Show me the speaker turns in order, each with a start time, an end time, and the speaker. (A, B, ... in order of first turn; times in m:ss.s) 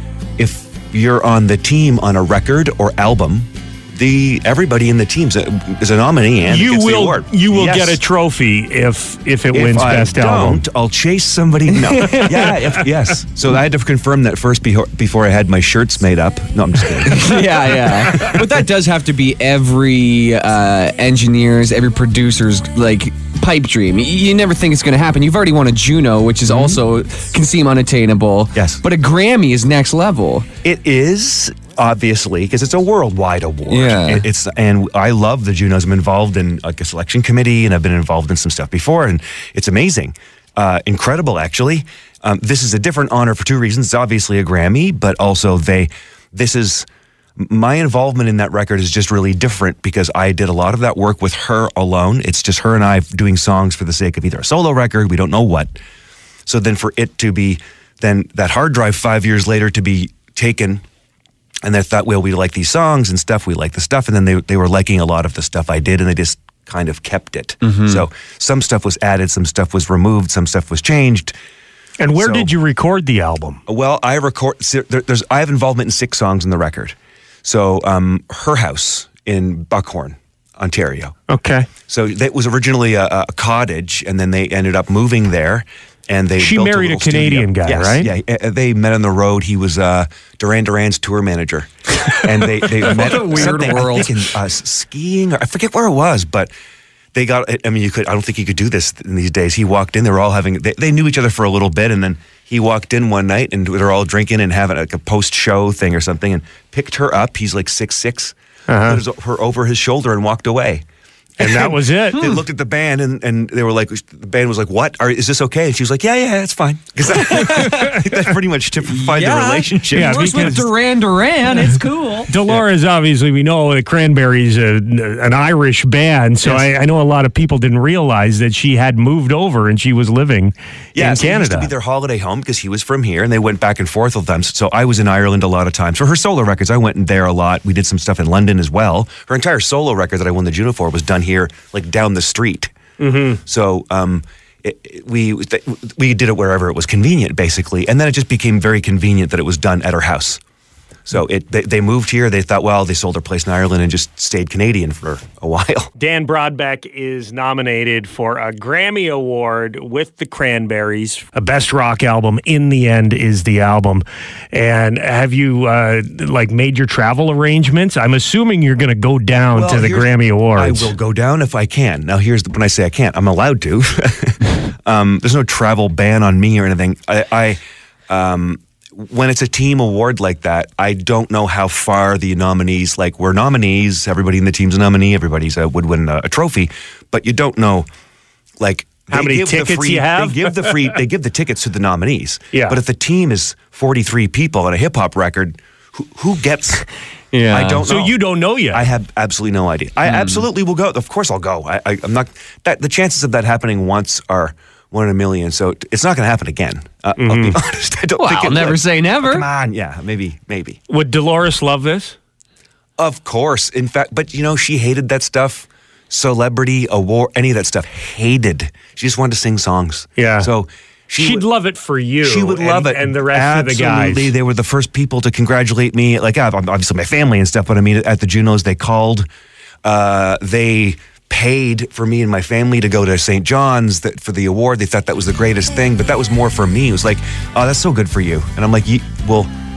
0:00.4-0:08.0 A
0:06.5-0:10.6 B
0:09.5-0:18.4 A
0:11.7-0:12.4 C
0:17.0-0:30.5 C
0:26.5-0:26.8 A
0:28.5-0:28.8 A
0:30.6-0:46.9 A
0:33.7-0:34.2 C
0:47.4-0:55.8 A
0:56.5-1:00.8 A
1:01.6-1:11.3 A
1:12.0-1:13.6 B
1:12.1-1:12.5 A
1:13.7-1:21.1 A
1:21.3-1:21.7 B
1:21.9-1:31.7 A
1:26.4-1:28.1 B
1:32.2-1:36.5 A
1:32.9-1:34.1 C
1:37.1-1:50.8 A
1:48.7-1:49.0 B
1:51.4-1:52.2 B
1:51.4-2:00.6 A
1:57.2-1:58.0 C
1:58.9-2:02.3 C
1:59.9-2:00.7 B
2:02.3-2:11.7 B
2:06.4-2:06.7 A
2:10.9-2:22.7 A
2:23.0-2:23.4 B
2:23.4-2:30.4 A
2:31.1-2:35.9 A
2:36.0-2:50.9 B
2:49.5-3:07.9 A
3:08.6-3:16.9 A
3:09.1-3:11.0 B
3:12.5-3:12.8 B
3:17.3-3:17.8 C
3:17.5-3:18.2 A
3:17.8-3:18.8 B
3:18.7-3:30.8 A
3:20.1-3:20.4 C
3:27.2-3:27.6 B
3:28.2-3:29.4 C
3:30.9-3:32.2 B
3:33.0-3:41.5 A
3:40.2-3:40.5 B
3:41.2-3:44.3 B
3:42.2-3:49.3 A
3:49.8-3:59.5 A